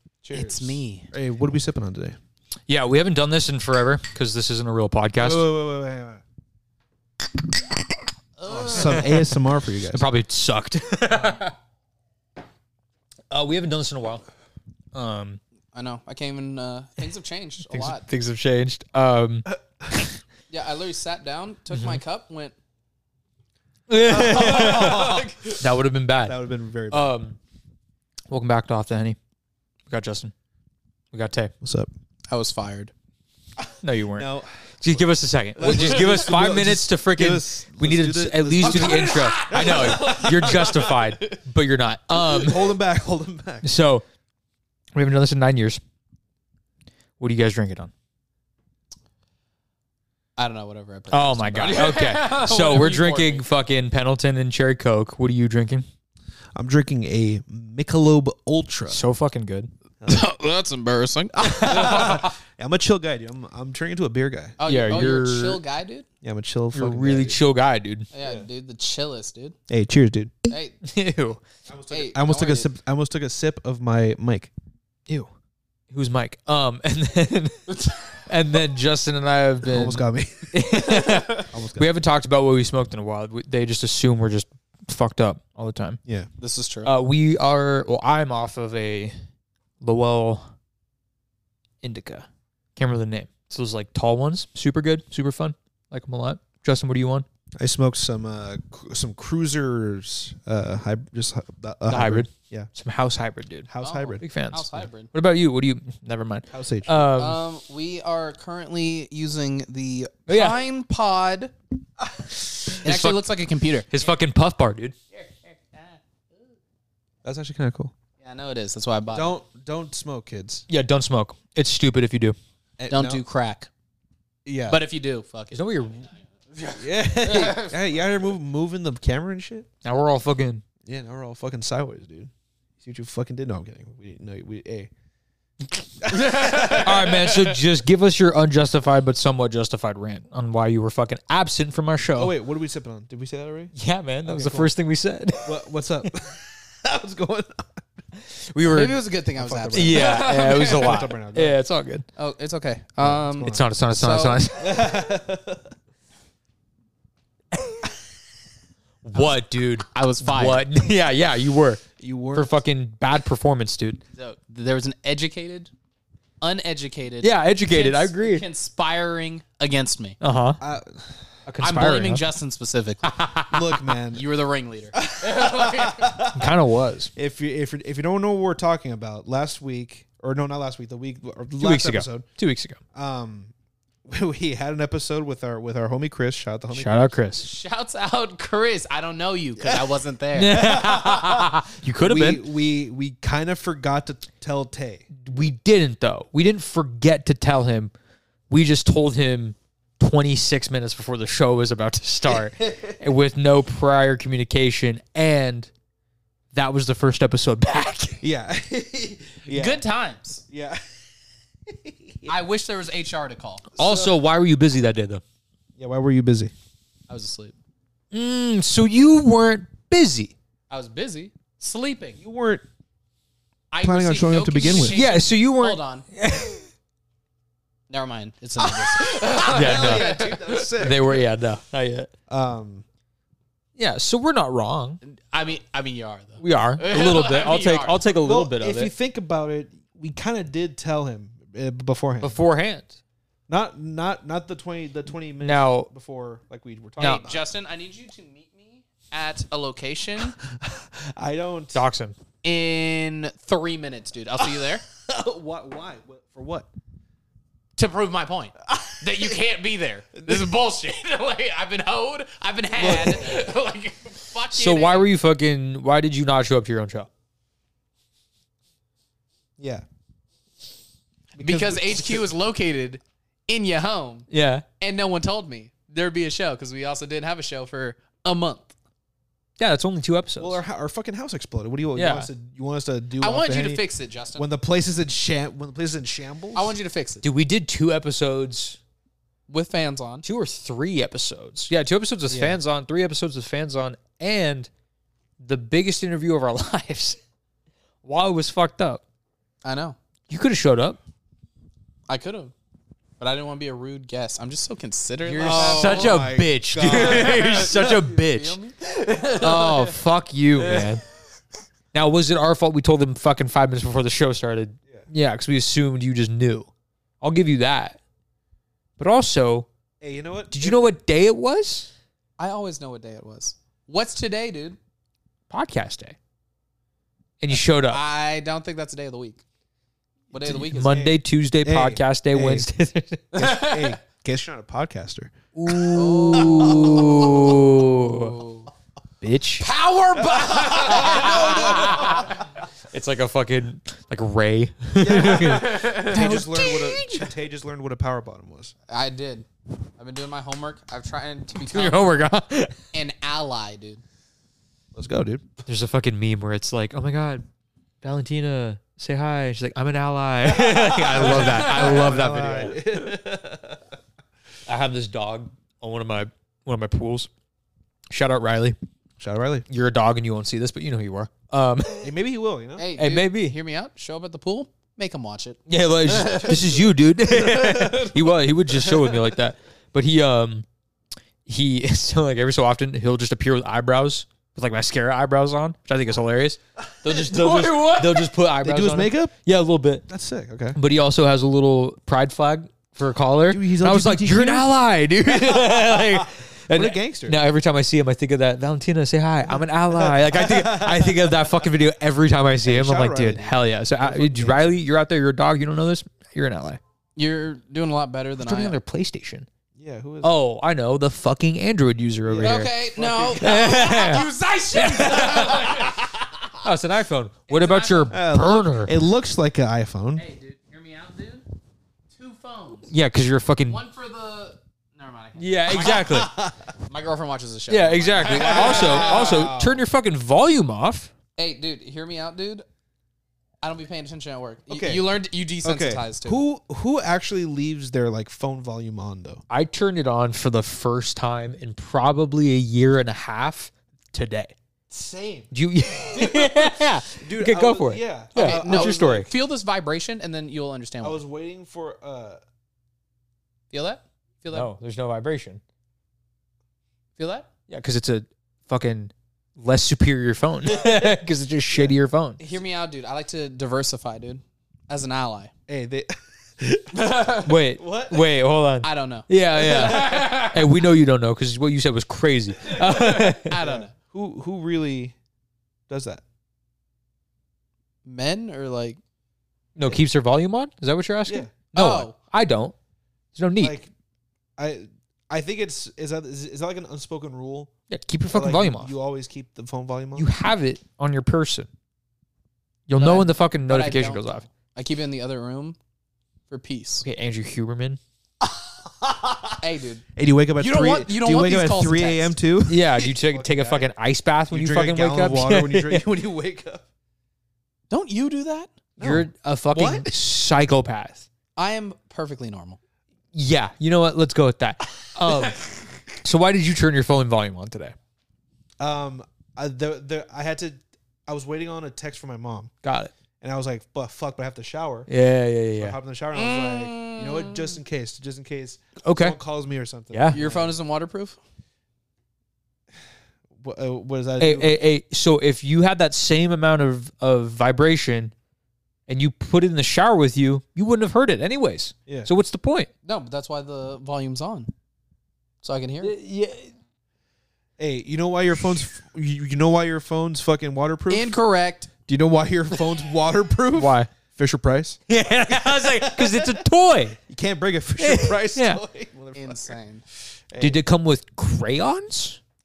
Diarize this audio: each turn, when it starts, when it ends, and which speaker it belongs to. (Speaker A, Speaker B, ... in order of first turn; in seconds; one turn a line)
Speaker A: 0.2-2.2
Speaker B: 0.3-1.1
Speaker C: 2.7-5.5
Speaker A: 5.2-6.2
Speaker B: 8.4-9.1
Speaker A: 8.4-10.1
Speaker C: 8.7-11.5
Speaker C: 13.3-14.2
Speaker C: 14.9-15.4
Speaker B: 15.7-18.1
Speaker C: 17.7-19.5
Speaker A: 19.5-20.0
Speaker B: 20.5-22.6
Speaker C: 21.7-22.0
Speaker C: 23.9-26.4
Speaker A: 24.1-25.5
Speaker B: 24.1-25.6
Speaker A: 26.2-27.1
Speaker C: 26.9-27.4
Speaker C: 28.3-29.2
Speaker C: 29.9-30.3
Speaker C: 31.1-31.5
Speaker A: 31.6-31.9
Speaker B: 32.3-32.9
Speaker C: 33.8-42.8
Speaker A: 34.1-34.5
Speaker A: 35.6-40.8
Speaker B: 38.6-41.4
Speaker A: 42.1-43.7
Speaker C: 43.6-44.0
Speaker C: 45.0-45.8
Speaker C: 47.2-47.9
Speaker B: 50.4-53.5
Speaker C: 51.1-55.9
Speaker A: 56.6-59.0
Speaker C: 58.9-59.7
Speaker B: 60.1-62.3
Speaker A: 61.4-64.6
Speaker B: 64.6-66.1
Speaker C: 64.7-65.6
Speaker A: 66.2-67.4
Speaker C: 66.7-68.1
Speaker B: 68.1-69.6
Speaker A: 69.7-70.3
Speaker B: 70.5-70.8
Speaker C: 70.8-71.4
Speaker A: 71.7-74.5
Speaker B: 71.9-72.7
Speaker C: 75.9-80.0
Speaker B: 77.7-78.1
Speaker A: 79.6-81.9
Speaker C: 80.5-86.0
Speaker A: 86.0-86.3
Speaker B: 86.4-86.9
Speaker C: 86.8-89.2
Speaker C: 89.8-90.5
Speaker C: 91.8-97.3
Speaker A: 97.6-102.7
Speaker C: 101.9-103.7
Speaker A: 103.7-104.2
Speaker B: 103.8-105.1
Speaker C: 104.2-107.4
Speaker A: 106.5-107.1
Speaker B: 107.1-111.5
Speaker C: 110.3-110.6
Speaker C: 112.7-113.3
Speaker B: 112.8-114.1
Speaker C: 113.9-115.0
Speaker B: 115.1-116.0
Speaker A: 117.2-117.9
Speaker B: 118.2-119.3
Speaker A: 119.1-120.6
Speaker C: 120.7-122.4
Speaker A: 122.8-123.2
Speaker B: 122.9-123.7
Speaker A: 124.5-124.8
Speaker B: 124.7-126.0
Speaker C: 125.5-126.1
Speaker B: 126.5-127.7
Speaker A: 126.8-129.7
Speaker C: 129.8-130.6
Speaker A: 130.8-134.9
Speaker A: 136.0-137.0
Speaker B: 136.1-137.5
Speaker C: 136.7-142.3
Speaker A: 142.2-143.7
Speaker C: 143.8-146.1
Speaker A: 144.2-144.7
Speaker A: 145.4-147.8
Speaker C: 148.3-149.0
Speaker B: 148.7-151.0
Speaker A: 149.4-151.6
Speaker C: 149.7-152.1
Speaker B: 152.2-154.4
Speaker A: 153.0-153.7
Speaker C: 153.4-154.8
Speaker A: 154.6-155.7
Speaker C: 159.0-164.0
Speaker B: 159.9-160.7
Speaker A: 162.0-162.6
Speaker B: 164.1-165.7
Speaker B: 166.4-170.2
Speaker C: 167.2-168.4
Speaker C: 170.2-170.6
Speaker A: 170.6-171.2
Speaker C: 171.5-172.2
Speaker B: 171.6-173.1
Speaker C: 173.1-173.7
Speaker A: 173.5-174.2
Speaker B: 174.1-176.2
Speaker A: 174.9-176.5
Speaker C: 176.3-177.1
Speaker A: 177.1-182.3
Speaker C: 181.6-182.8
Speaker A: 182.9-183.5
Speaker A: 184.1-187.2
Speaker C: 186.7-187.4
Speaker B: 187.4-190.6
Speaker A: 189.6-189.9
Speaker C: 190.3-192.4
Speaker A: 190.5-195.1
Speaker C: 195.2-197.9
Speaker C: 198.5-205.7
Speaker A: 202.3-203.0
Speaker C: 206.5-208.2
Speaker A: 208.2-209.8
Speaker B: 209.5-210.4
Speaker A: 210.5-210.8
Speaker A: 211.7-212.3
Speaker B: 212.3-213.8
Speaker C: 213.8-215.2
Speaker A: 213.8-214.2
Speaker A: 215.8-216.5
Speaker B: 217.1-217.6
Speaker C: 218.1-220.3
Speaker B: 220.7-222.2
Speaker A: 222.2-222.7
Speaker B: 223.7-226.1
Speaker A: 223.8-225.0
Speaker C: 224.6-226.7
Speaker B: 227.9-230.9
Speaker A: 229.0-231.2
Speaker C: 229.0-232.1
Speaker A: 232.3-232.8
Speaker C: 233.8-235.0
Speaker B: 235.0-238.1
Speaker C: 236.4-238.9
Speaker A: 238.2-242.4
Speaker C: 242.2-243.0
Speaker A: 243.5-247.5
Speaker C: 245.4-245.9
Speaker B: 247.0-250.4
Speaker A: 250.4-251.8
Speaker C: 251.7-252.2
Speaker B: 252.4-254.8
Speaker A: 254.6-256.7
Speaker B: 257.8-265.1
Speaker A: 260.3-260.5
Speaker A: 262.8-263.5
Speaker C: 264.5-267.1
Speaker A: 269.6-269.8
Speaker A: 271.4-272.3
Speaker B: 271.4-274.3
Speaker C: 274.3-274.6
Speaker B: 274.8-278.7
Speaker C: 279.6-280.6
Speaker A: 280.4-283.8
Speaker C: 282.0-282.3
Speaker B: 283.2-284.5
Speaker A: 284.4-286.7
Speaker B: 286.6-287.3
Speaker C: 287.2-288.8
Speaker B: 289.5-290.2
Speaker C: 290.2-294.7
Speaker A: 292.3-292.6
Speaker C: 295.4-297.2
Speaker C: 298.0-299.0
Speaker B: 299.6-300.0
Speaker C: 300.3-301.0
Speaker B: 302.1-302.5
Speaker B: 303.2-306.2
Speaker C: 305.2-308.6
Speaker A: 305.4-308.0
Speaker B: 306.8-310.0
Speaker C: 309.4-311.0
Speaker C: 311.9-316.7
Speaker C: 317.2-318.0
Speaker C: 319.0-319.7
Speaker A: 320.0-320.8
Speaker C: 320.5-321.9
Speaker B: 322.4-324.8
Speaker C: 325.5-326.2
Speaker C: 327.4-328.0
Speaker B: 327.9-329.4
Speaker A: 330.3-332.7
Speaker B: 330.3-331.1
Speaker C: 330.6-333.4
Speaker B: 333.3-334.0
Speaker A: 333.4-337.6
Speaker C: 335.5-338.4
Speaker B: 335.9-338.7
Speaker C: 339.2-339.6
Speaker B: 339.6-342.4
Speaker A: 340.2-342.4
Speaker C: 340.9-347.3
Speaker A: 345.0-348.7
Speaker B: 345.2-346.3
Speaker B: 348.9-349.5
Speaker B: 350.0-352.2
Speaker C: 351.6-352.8
Speaker B: 352.9-354.0
Speaker A: 354.9-355.6
Speaker C: 355.7-357.4
Speaker C: 358.0-362.8
Speaker A: 360.4-363.9
Speaker B: 361.3-362.1
Speaker C: 364.7-367.3
Speaker C: 368.1-368.8
Speaker A: 369.2-369.7
Speaker C: 369.7-372.1
Speaker A: 372.0-372.9
Speaker B: 372.8-376.8
Speaker C: 373.0-373.6
Speaker C: 375.7-380.7
Speaker B: 377.5-378.0
Speaker C: 381.5-390.1
Speaker B: 387.1-388.3
Speaker A: 388.6-389.3
Speaker A: 390.1-390.8
Speaker C: 390.8-406.8
Speaker A: 393.5-394.7
Speaker A: 395.3-397.4
Speaker A: 399.5-401.6
Speaker A: 402.6-404.8
Speaker B: 407.2-408.8
Speaker C: 408.4-409.5
Speaker A: 409.8-410.3
Speaker C: 410.2-412.7
Speaker A: 412.3-413.9
Speaker B: 412.4-416.2
Speaker C: 413.4-415.8
Speaker C: 416.6-419.0
Speaker B: 417.5-418.2
Speaker A: 418.1-420.2
Speaker B: 420.2-421.4
Speaker B: 422.1-422.9
Speaker C: 422.9-423.8
Speaker B: 423.7-426.3
Speaker C: 425.4-426.3
Speaker A: 425.8-426.7
Speaker B: 426.8-429.5
Speaker C: 427.7-431.1
Speaker A: 428.4-429.8
Speaker B: 431.4-432.6
Speaker B: 433.6-436.4
Speaker A: 434.7-435.1
Speaker A: 435.6-439.4
Speaker C: 439.5-444.5
Speaker A: 444.9-445.5
Speaker C: 445.5-449.3
Speaker A: 446.1-449.3
Speaker B: 448.4-451.2
Speaker A: 451.0-452.4
Speaker B: 453.7-454.7
Speaker C: 454.5-455.6
Speaker B: 457.2-457.5
Speaker C: 457.7-462.4
Speaker B: 462.4-465.5
Speaker A: 465.7-466.2
Speaker C: 466.7-473.6
Speaker B: 466.9-467.5
Speaker A: 467.8-468.3
Speaker B: 468.8-470.6
Speaker A: 469.8-470.2
Speaker B: 472.8-473.9
Speaker A: 473.6-475.1
Speaker A: 475.9-476.2
Speaker B: 478.1-479.0
Speaker C: 479.8-482.7
Speaker A: 481.3-481.5
Speaker B: 481.8-482.2
Speaker C: 483.4-483.8
Speaker A: 483.6-483.9
Speaker A: 484.6-487.7
Speaker C: 487.9-488.9
Speaker A: 488.3-490.3
Speaker C: 490.2-491.7
Speaker C: 492.9-494.5
Speaker B: 493.0-495.8
Speaker B: 496.5-497.1
Speaker C: 497.0-498.0
Speaker A: 498.4-499.6
Speaker B: 499.6-500.1
Speaker A: 500.1-503.9
Speaker B: 500.6-502.4
Speaker C: 502.7-506.1
Speaker A: 504.5-506.9
Speaker B: 507.9-508.7
Speaker A: 509.0-510.1
Speaker C: 509.0-511.3
Speaker B: 511.6-512.8
Speaker C: 513.3-518.0
Speaker A: 518.8-522.7
Speaker C: 522.8-523.1
Speaker A: 523.4-525.1
Speaker C: 525.1-526.0
Speaker A: 525.8-530.8
Speaker B: 526.3-527.8
Speaker C: 529.0-529.4
Speaker C: 530.1-530.4
Speaker B: 530.3-531.4
Speaker A: 533.6-534.7
Speaker C: 534.4-538.3
Speaker C: 539.1-542.9
Speaker B: 543.0-544.7
Speaker B: 545.6-546.1
Speaker C: 546.0-546.7
Speaker A: 547.8-551.3
Speaker B: 551.1-551.9
Speaker A: 552.1-556.6
Speaker C: 553.7-554.1
Speaker C: 555.1-557.2
Speaker A: 557.3-559.8
Speaker C: 558.0-558.8
Speaker B: 559.4-560.0
Speaker A: 560.5-560.8
Speaker C: 560.6-562.4